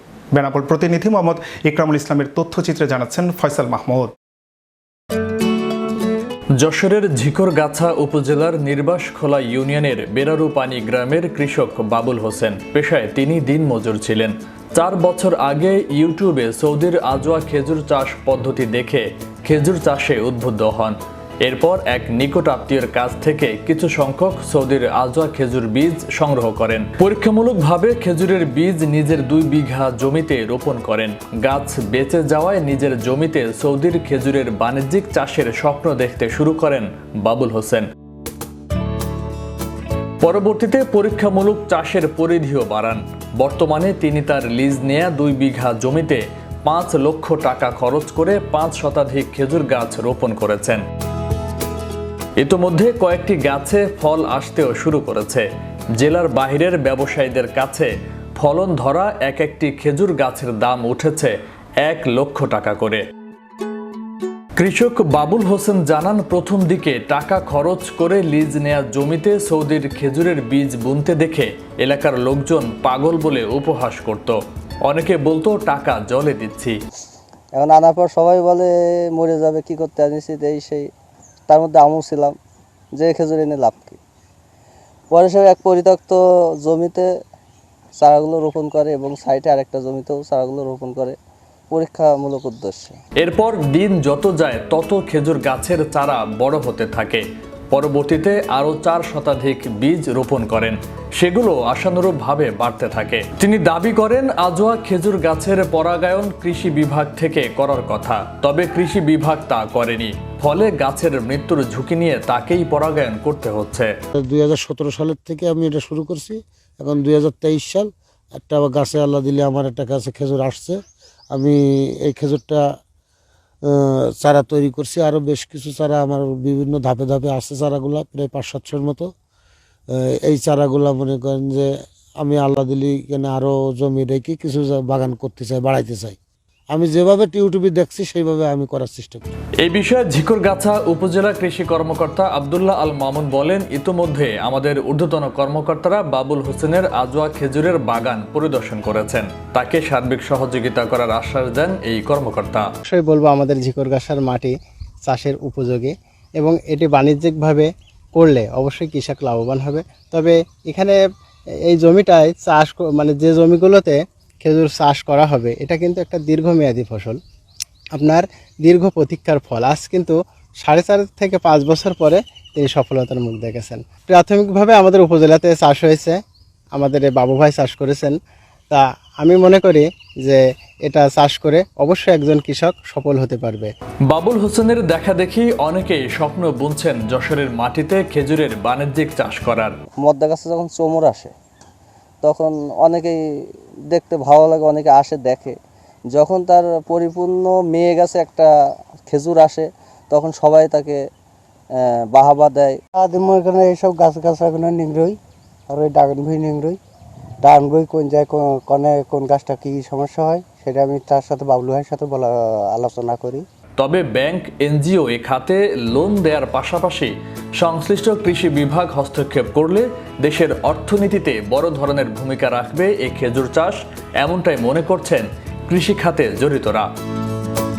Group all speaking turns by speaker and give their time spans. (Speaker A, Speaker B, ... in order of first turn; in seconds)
Speaker A: 0.3-4.1
Speaker B: 6.6-37.9, 40.2-50.8, 52.4-55.5, 56.0-63.0, 64.6-74.3, 74.9-76.8, 93.2-113.9, 139.6-152.7, 184.1-189.8, 213.8-226.9
Speaker C: 77.5-80.9, 81.5-82.3, 83.0-84.0, 85.1-87.1, 88.0-91.2, 91.7-93.0, 190.0-191.3, 192.2-193.2, 193.9-195.6, 196.1-198.5, 199.1-201.0, 202.1-202.8
Speaker D: 114.2-120.8, 121.3-122.7, 123.7-129.1, 129.9-136.2, 136.7-139.2
Speaker E: 152.9-154.5, 155.0-161.0, 161.7-167.2, 167.9-176.2, 176.7-178.1, 178.7-183.7
Speaker F: 202.9-205.2, 205.7-206.8, 207.4-213.4